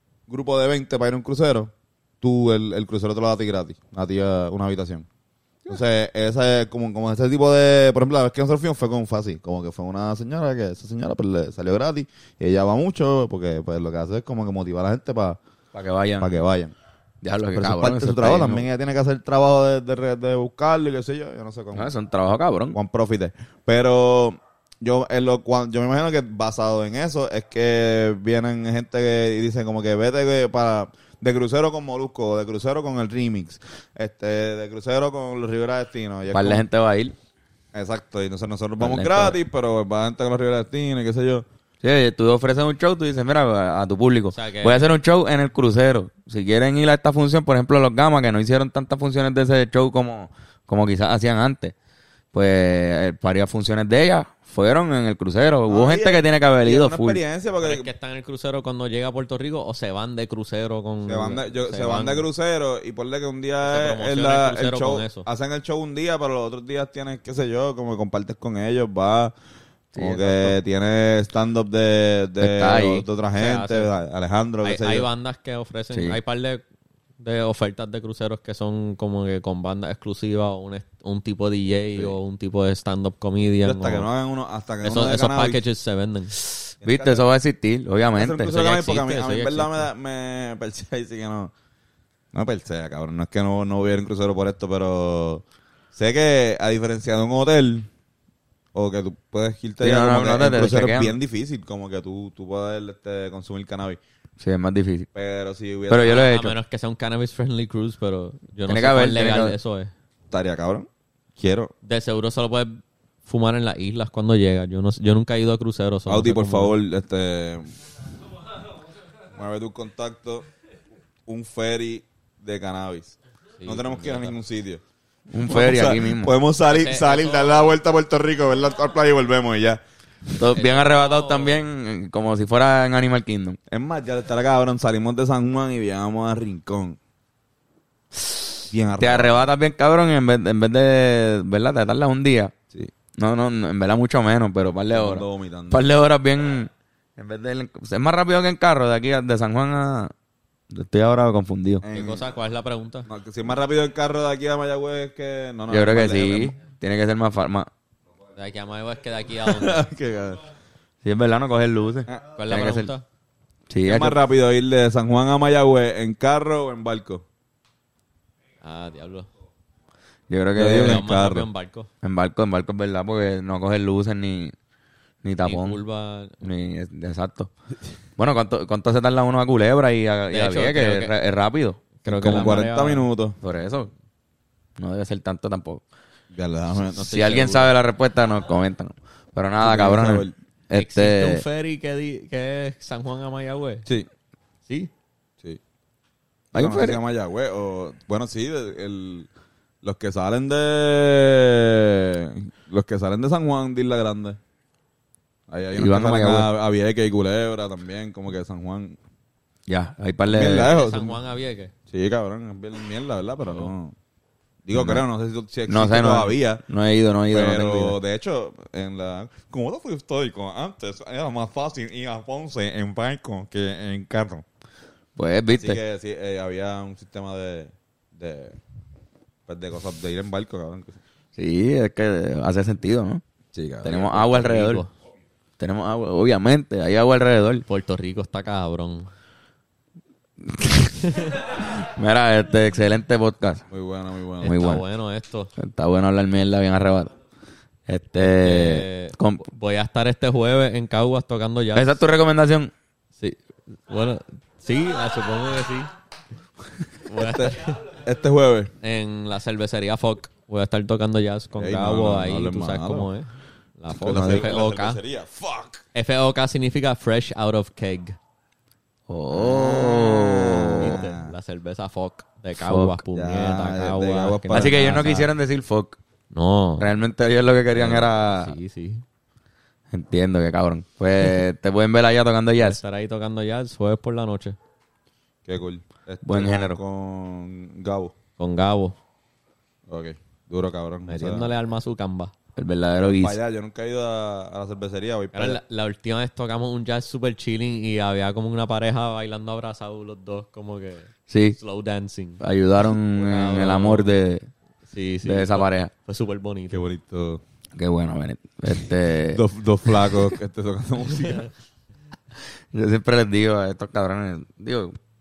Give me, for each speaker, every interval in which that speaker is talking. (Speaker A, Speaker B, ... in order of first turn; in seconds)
Speaker A: 0.3-1.7, 2.2-5.1, 5.7-15.4, 16.2-16.7, 17.5-21.9, 22.7-36.6, 37.7-41.5, 55.7-57.9, 61.1-69.3, 70.0-75.1, 83.6-85.6, 86.8-87.3, 88.1-91.5, 92.3-97.9, 98.7-104.0, 105.1-106.2, 110.3-111.7, 116.1-117.7, 119.3-120.5, 121.3-124.8, 125.5-129.8, 133.7-137.0, 138.7-139.5, 144.9-145.9, 151.8-152.2, 153.1-156.6, 159.4-160.4, 163.8-167.2, 170.6-171.5, 182.1-183.4, 186.3-187.0, 189.6-190.3, 196.5-199.3, 199.8-204.4, 205.5-209.0, 210.3-211.2, 211.9-213.9, 214.6-216.6, 217.3-224.4, 225.5-228.6, 229.5-231.0, 233.5-234.5, 243.7-244.6, 257.2-258.7, 261.6-263.1, 263.9-265.8, 269.3-271.3, 273.1-275.3, 285.5-288.1, 289.9-291.5, 293.0-295.6, 306.7-307.4, 309.3-311.5
Speaker B: 15.7-16.3, 17.2-18.7, 21.7-22.8, 36.3-37.2, 38.8-39.4, 41.8-51.7, 52.3-57.2, 70.0-70.6, 72.4-73.0, 75.9-76.2, 86.8-88.7, 99.8-101.2, 104.4-105.1, 105.9-106.5, 108.7-109.5, 125.3-126.3, 130.4-133.6, 138.2-142.5, 143.2-150.1, 150.7-151.8, 155.7-157.7, 161.0-162.9, 163.7-164.2, 170.3-171.1, 172.0-174.5, 175.2-175.8, 176.4-177.5, 178.2-182.6, 183.4-183.9, 184.8-185.8, 186.9-191.4, 196.5-197.0, 205.8-206.5, 209.7-210.7, 214.7-215.0, 215.7-218.0, 225.2-225.8, 231.4-233.2, 233.8-234.8, 235.6-237.6, 240.4-243.6, 244.4-244.8, 245.6-247.1, 247.9-249.4, 251.8-252.7, 269.1-271.0, 272.6-273.0, 274.5-276.0, 276.8-278.5, 279.9-282.8, 286.2-286.8, 292.6-293.4, 301.3-301.6, 302.4-304.5, 305.2-305.9, 307.8-310.2, 312.7-315.0
Speaker C: 44.3-44.9, 57.6-62.2, 63.6-65.3, 73.4-73.9, 74.6-76.6, 77.2-84.1, 84.8-86.5, 88.5-89.9, 106.0-109.9, 111.8-116.7, 123.6-124.4, 126.7-127.8, 130.6-131.6, 151.9-153.1, 158.3-159.9, 162.3-163.1, 168.6-169.3, 170.7-171.9, 175.4-176.5, 180.3-181.1, 182.0-183.1, 187.0-187.8, 190.7-193.9, 210.6-211.7, 234.3-234.9, 237.7-239.1, 241.0-241.4, 244.5-245.5, 248.2-252.0, 253.2-255.9, 257.1-257.9, 258.8-265.0, 265.9-268.2, 270.8-275.2, 276.3-276.9, 277.7-279.0, 282.6-284.6, 288.4-289.0, 291.1-292.3, 295.3-302.4, 303.2-304.1, 304.9-306.8